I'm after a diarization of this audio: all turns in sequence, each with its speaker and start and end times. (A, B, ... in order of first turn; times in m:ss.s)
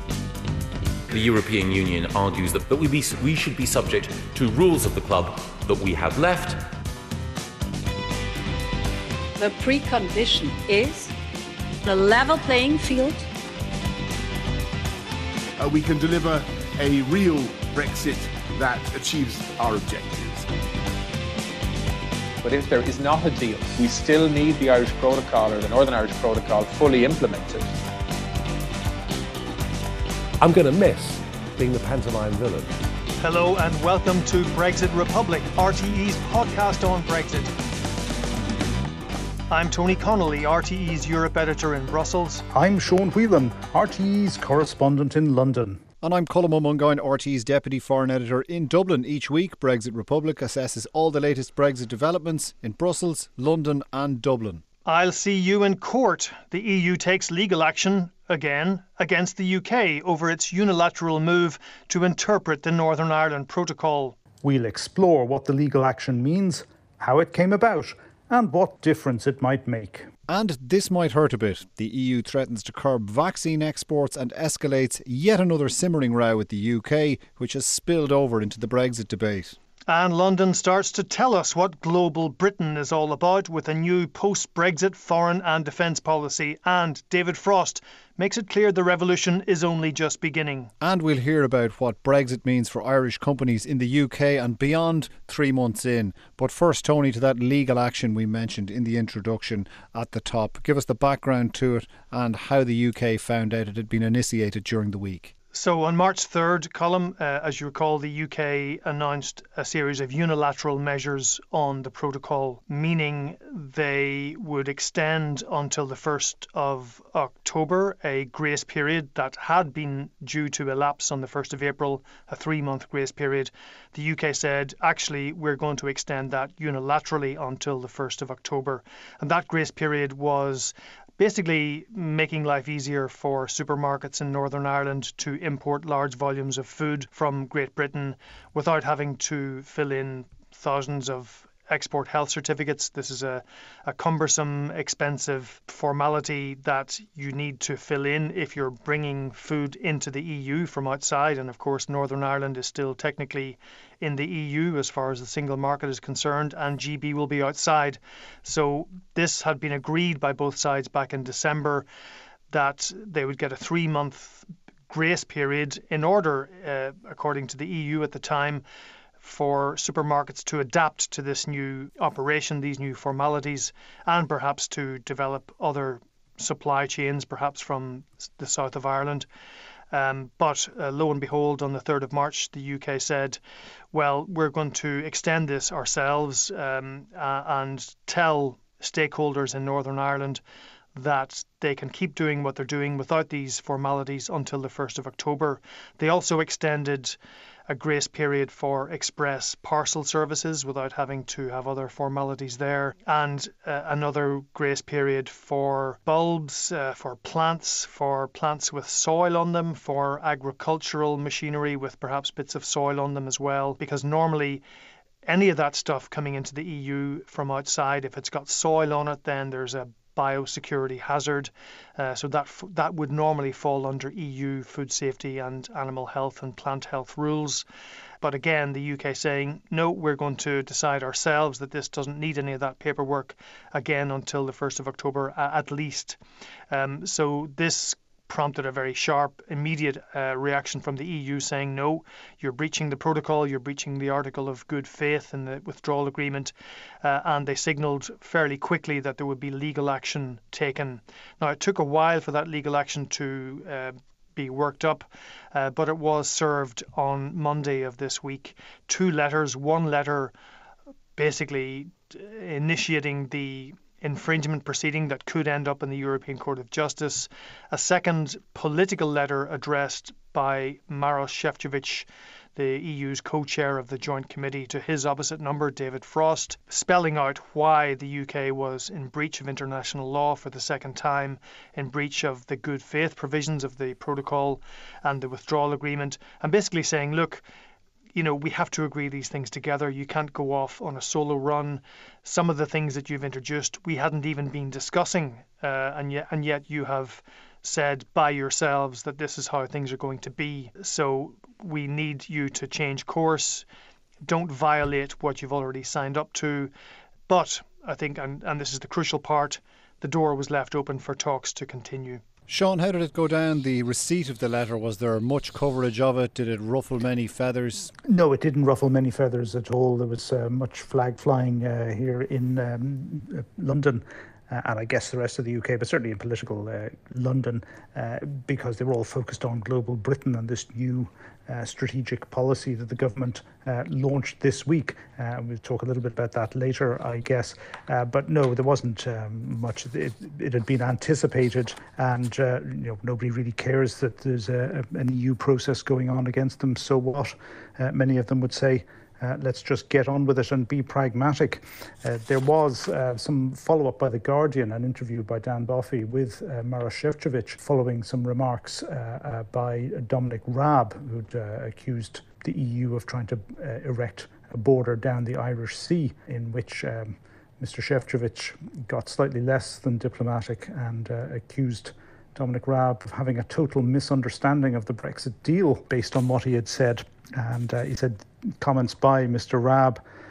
0:01.1-0:06.7 A
0:09.4-0:11.1 B
0:11.8-0:13.2 B
0:15.6-0:20.5 C
0:22.4-0:27.7 D
0:30.4-0:32.7 E
0:33.2-0:37.5 F
0:39.5-0:42.4 F
0:42.5-0:45.8 G
0:46.0-0:54.6 H
0:54.9-1:04.2 F
1:04.4-1:10.1 G
1:10.3-1:19.6 H
1:19.9-1:30.7 F
1:30.8-1:45.3 H
1:45.5-2:41.8 F
2:42.5-2:48.6 F
2:49.2-2:59.3 F
2:59.9-3:03.4 F
3:03.9-3:10.4 F
3:11.0-3:17.2 F
3:17.7-3:34.6 F
3:35.2-3:47.6 F
3:48.2-3:56.2 F
3:56.7-4:20.3 F
4:21.2-4:47.4 F
4:48.2-5:03.7 F
5:04.2-5:06.7 F
5:07.3-5:12.2 F
5:12.5-5:17.9 H
5:18.0-6:20.0 G